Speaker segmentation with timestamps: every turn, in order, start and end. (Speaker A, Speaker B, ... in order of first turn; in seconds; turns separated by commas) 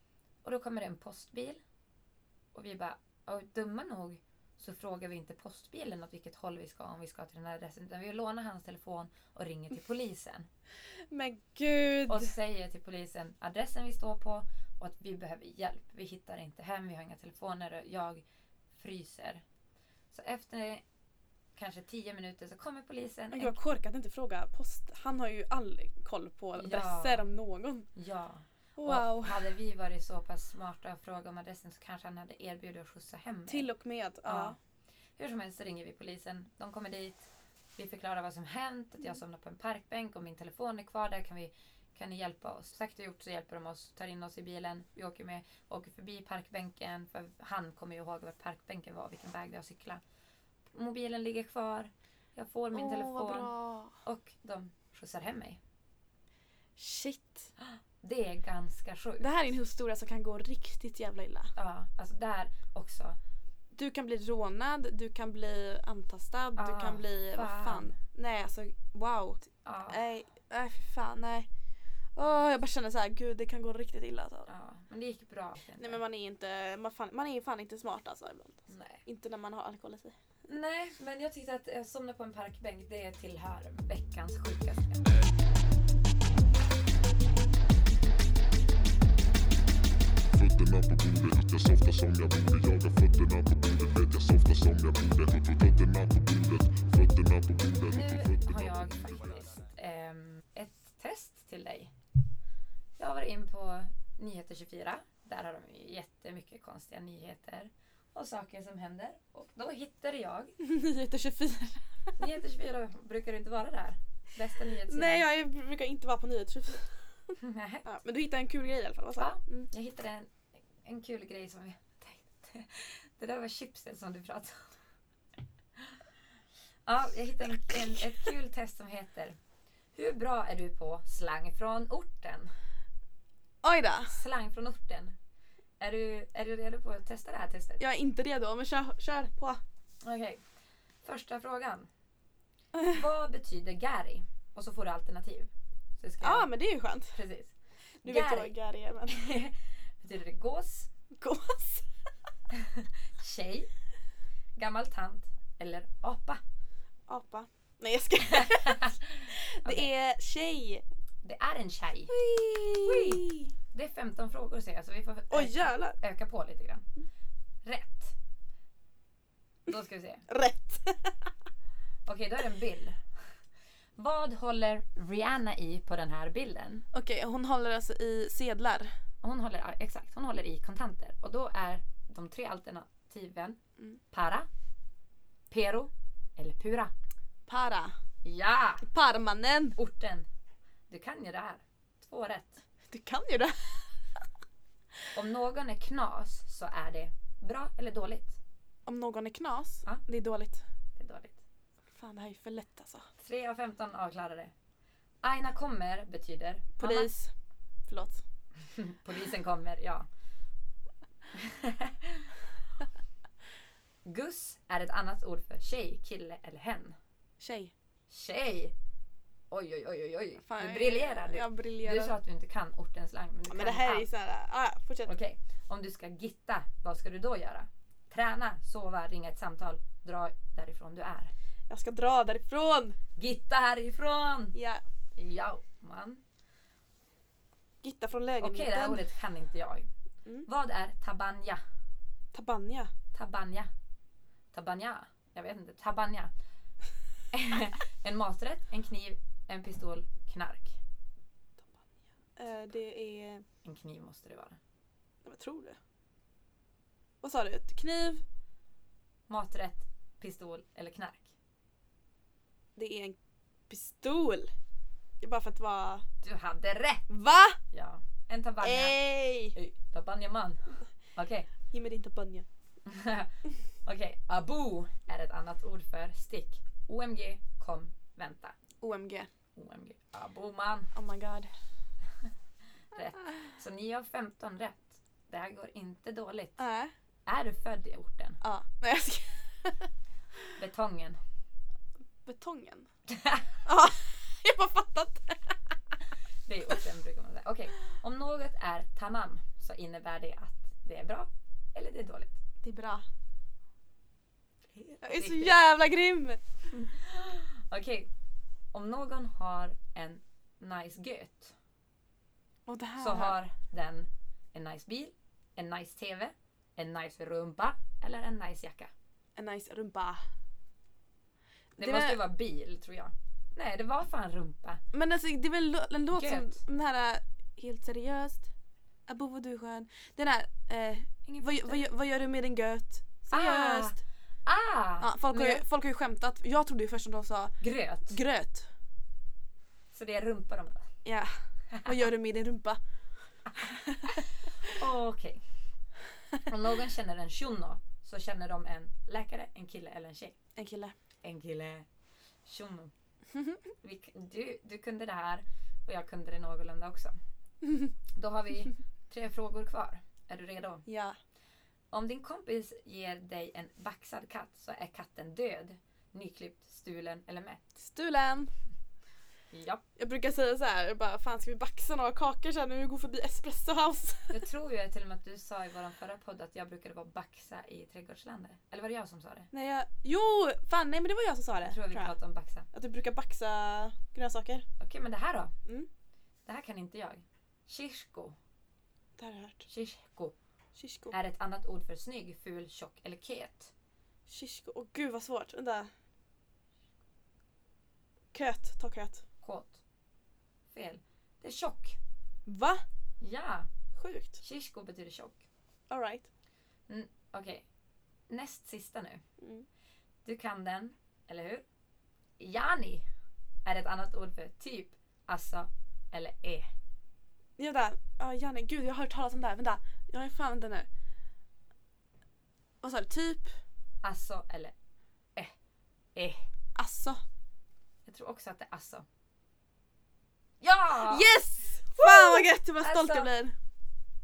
Speaker A: 0.4-1.6, Speaker A: 2.5-10.5, Speaker B: 11.1-12.3, Speaker A: 12.1-18.2, Speaker A: 18.7-19.4, Speaker A: 20.1-20.8, Speaker A: 21.6-23.6, Speaker B: 23.3-27.9, Speaker A: 26.6-27.2, Speaker A: 27.9-33.7, Speaker B: 28.8-29.5, Speaker B: 33.5-34.6, Speaker A: 34.2-34.6, Speaker A: 35.2-50.0, Speaker A: 50.7-55.6, Speaker B: 52.7-54.0, Speaker B: 56.8-57.5, Speaker A: 57.6-59.3, Speaker B: 59.2-61.5, Speaker A: 61.6-63.2, Speaker B: 63.7-71.5, Speaker A: 66.6-68.0, Speaker A: 69.7-70.0, Speaker B: 72.2-74.5, Speaker A: 74.5-76.0, Speaker B: 75.8-80.2, Speaker A: 78.7-79.0, Speaker A: 80.5-85.0, Speaker C: 90.3-98.9, Speaker A: 97.9-101.9, Speaker A: 103.0-110.6, Speaker B: 110.6-111.8, Speaker A: 112.2-115.3, Speaker B: 114.9-116.9, Speaker A: 117.4-117.9, Speaker B: 117.8-119.7, Speaker A: 119.2-120.3, Speaker A: 120.8-124.7, Speaker A: 126.9-129.4, Speaker A: 129.9-132.5, Speaker B: 133.6-134.1, Speaker A: 134.1-135.2, Speaker A: 135.8-137.8, Speaker B: 137.8-139.6, Speaker A: 140.0-140.4, Speaker A: 141.0-141.9, Speaker A: 142.8-146.5, Speaker B: 146.2-147.2, Speaker A: 147.1-148.5, Speaker B: 148.0-149.2, Speaker A: 149.1-150.9, Speaker B: 151.2-151.9, Speaker A: 152.5-153.7, Speaker A: 154.6-156.4, Speaker B: 157.1-160.8, Speaker A: 158.2-159.9, Speaker A: 161.2-162.2, Speaker B: 162.1-163.5, Speaker A: 162.8-166.9, Speaker B: 165.3-166.0, Speaker A: 167.6-168.2, Speaker A: 169.7-170.3, Speaker B: 170.3-171.3, Speaker A: 172.1-173.0, Speaker A: 174.0-176.9, Speaker B: 176.9-178.9, Speaker A: 179.2-183.6, Speaker A: 184.1-184.5, Speaker A: 185.5-186.9, Speaker B: 187.5-187.9, Speaker A: 188.2-188.9, Speaker B: 188.8-189.8, Speaker A: 189.8-190.3, Speaker A: 190.9-192.6, Speaker B: 192.9-193.9, Speaker A: 195.1-198.4, Speaker B: 198.9-200.6, Speaker A: 201.0-201.4, Speaker B: 201.9-203.1, Speaker A: 203.2-204.5, Speaker A: 205.2-207.1, Speaker B: 206.8-207.3, Speaker B: 207.9-208.2, Speaker A: 208.6-210.1, Speaker A: 211.3-212.3, Speaker A: 214.1-217.0, Speaker B: 217.4-217.7, Speaker A: 218.1-218.7, Speaker A: 219.5-224.1, Speaker B: 220.4-222.2, Speaker B: 223.5-225.2, Speaker A: 225.1-231.3, Speaker B: 231.7-233.0, Speaker A: 233.2-234.6, Speaker B: 234.5-234.8, Speaker A: 235.2-236.2, Speaker B: 237.8-239.0, Speaker A: 238.4-239.9, Speaker A: 240.5-241.6, Speaker B: 242.3-242.9, Speaker A: 243.1-243.7, Speaker A: 244.5-246.3, Speaker A: 247.3-250.8, Speaker B: 251.6-253.4, Speaker A: 253.6-254.6, Speaker B: 255.2-255.8, Speaker B: 257.2-258.2, Speaker A: 259.3-261.3, Speaker B: 262.8-263.2, Speaker B: 263.7-264.5, Speaker B: 265.2-266.1, Speaker A: 266.2-267.1, Speaker B: 267.1-267.6, Speaker A: 267.7-269.0, Speaker B: 268.6-269.6, Speaker A: 269.5-271.5, Speaker B: 271.7-272.5, Speaker A: 272.9-278.6, Speaker B: 278.8-279.3, Speaker A: 279.6-280.9, Speaker B: 280.9-281.5, Speaker A: 282.9-286.6, Speaker B: 286.6-286.9, Speaker A: 287.3-288.4, Speaker B: 288.4-289.9, Speaker A: 290.5-291.2, Speaker B: 292.2-292.9, Speaker A: 293.1-293.6, Speaker B: 293.6-295.6, Speaker A: 296.5-302.4, Speaker B: 302.6-303.1, Speaker A: 304.7-305.6, Speaker B: 305.0-306.4, Speaker A: 306.7-308.1, Speaker A: 308.7-311.6, Speaker B: 312.7-313.4, Speaker A: 313.0-318.9, Speaker B: 319.4-320.2, Speaker A: 321.8-324.8, Speaker B: 321.8-322.2, Speaker B: 324.9-328.5, Speaker A: 326.1-326.6, Speaker B: 329.1-334.0, Speaker A: 331.2-331.9, Speaker A: 333.3-335.6, Speaker B: 335.0-338.7, Speaker A: 337.6-338.2, Speaker A: 339.9-340.9, Speaker B: 341.0-342.8, Speaker A: 341.7-342.0, Speaker B: 343.6-344.2, Speaker A: 344.0-345.4, Speaker A: 346.4-350.4, Speaker B: 350.6-350.9, Speaker A: 351.2-351.9, Speaker A: 352.5-352.9, Speaker A: 353.8-357.2, Speaker A: 358.2-360.9, Speaker B: 360.9-361.2, Speaker A: 361.9-367.6, Speaker B: 367.8-368.5, Speaker A: 369.5-369.8, Speaker B: 370.0-374.4, Speaker A: 374.3-379.5, Speaker B: 379.5-382.1, Speaker A: 381.6-382.7, Speaker B: 382.7-384.7, Speaker A: 384.8-385.5, Speaker A: 386.5-388.4, Speaker B: 389.2-389.6, Speaker A: 389.7-390.4, Speaker B: 390.8-391.1, Speaker A: 391.1-393.7, Speaker B: 394.3-395.9, Speaker B: 398.3-399.2, Speaker A: 399.4-399.8, Speaker A: 400.7-402.0, Speaker B: 402.5-402.8, Speaker A: 403.2-403.7, Speaker B: 404.0-404.4, Speaker A: 404.4-405.4, Speaker B: 405.9-406.3, Speaker A: 406.9-407.6, Speaker A: 408.3-409.2, Speaker B: 409.4-409.7, Speaker A: 410.2-411.6, Speaker A: 412.4-413.1, Speaker A: 413.6-416.7, Speaker B: 417.6-420.9, Speaker B: 422.8-423.5, Speaker A: 424.0-424.7, Speaker A: 426.1-426.4, Speaker B: 426.8-427.2, Speaker A: 428.1-429.1, Speaker A: 430.6-431.3, Speaker B: 431.0-433.6, Speaker A: 431.9-433.3